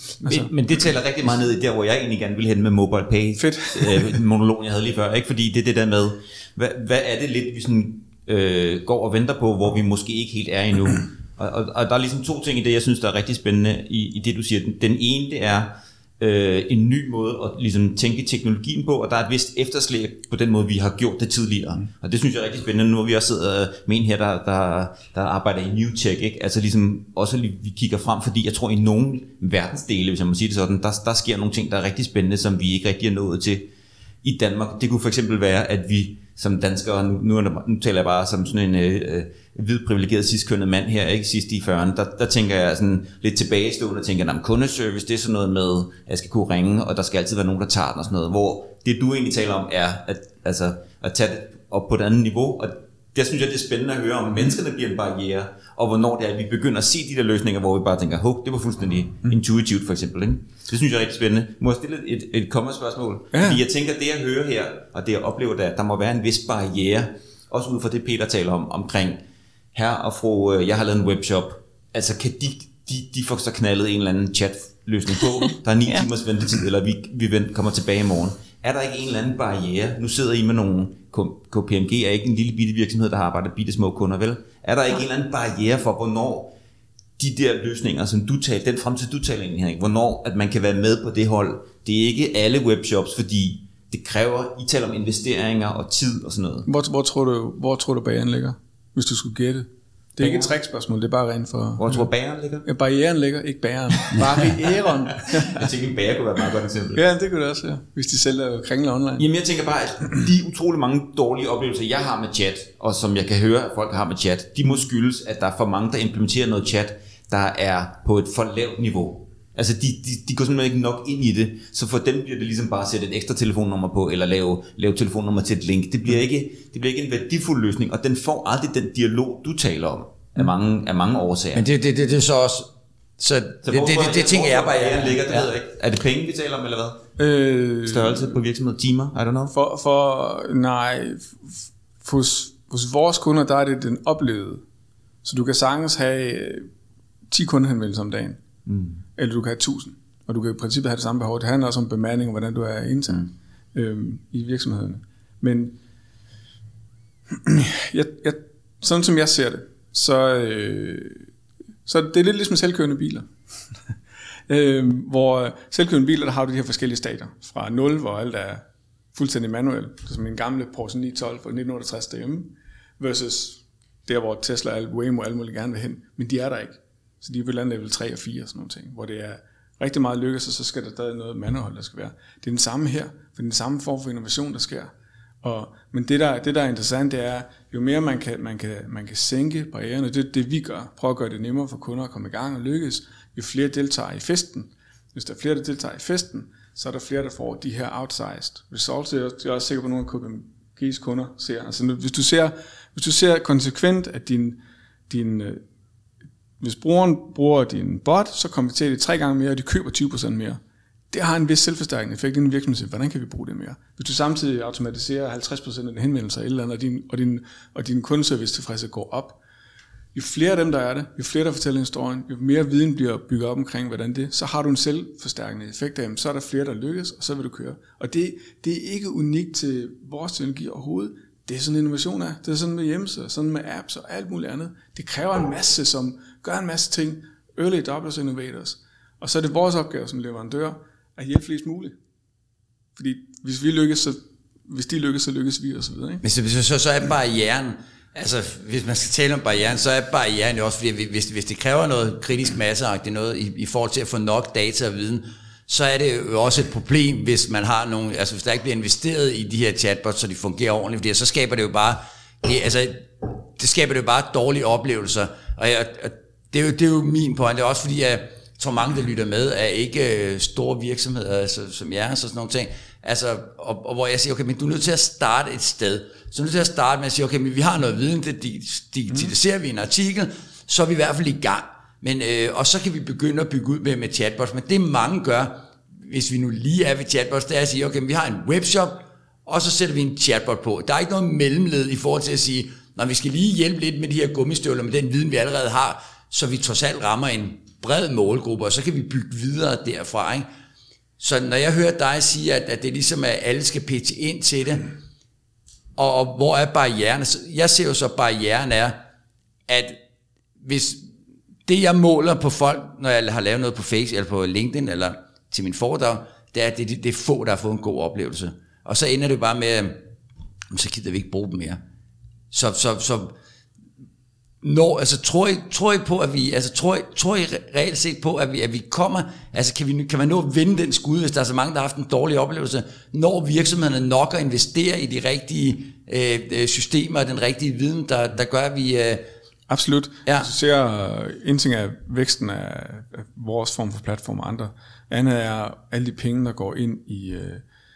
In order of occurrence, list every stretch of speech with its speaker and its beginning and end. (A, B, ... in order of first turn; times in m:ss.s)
0:00.2-0:00.5 A
0:00.2-0:33.7 B
0:03.4-0:04.2 A
0:34.2-1:09.2 B
1:03.3-1:03.6 A
1:09.7-1:26.5 B
1:27.2-1:36.7 B
1:36.6-1:42.0 A
1:40.2-1:40.6 B
1:41.8-1:42.6 B
1:42.6-1:45.7 A
1:45.2-1:47.0 B
1:46.9-1:49.2 A
1:49.2-2:11.6 B
2:11.5-2:15.5 C
2:13.6-2:17.0 B
2:17.2-2:18.3 A
2:17.8-2:19.5 B
2:19.5-2:21.4 A
2:22.0-2:24.6 A
2:25.2-2:26.7 A
2:27.3-2:28.4 A
2:28.7-2:29.0 B
2:29.2-2:35.8 A
2:37.4-2:41.2 A
2:41.8-2:43.3 A
2:44.5-2:48.6 A
2:49.1-3:25.6 A
3:26.6-3:30.6 A
3:31.1-3:39.4 A
3:40.1-4:02.0 A
4:03.0-4:06.2 A
4:06.2-5:00.4 C
5:01.2-5:04.9 C
5:06.0-5:09.0 C
5:09.7-5:10.0 C
5:10.6-5:11.1 C
5:11.6-5:20.0 C
5:20.7-5:21.8 C
5:22.5-5:23.3 C
5:24.6-5:39.2 C
5:39.7-5:47.6 A
5:40.2-5:40.5 C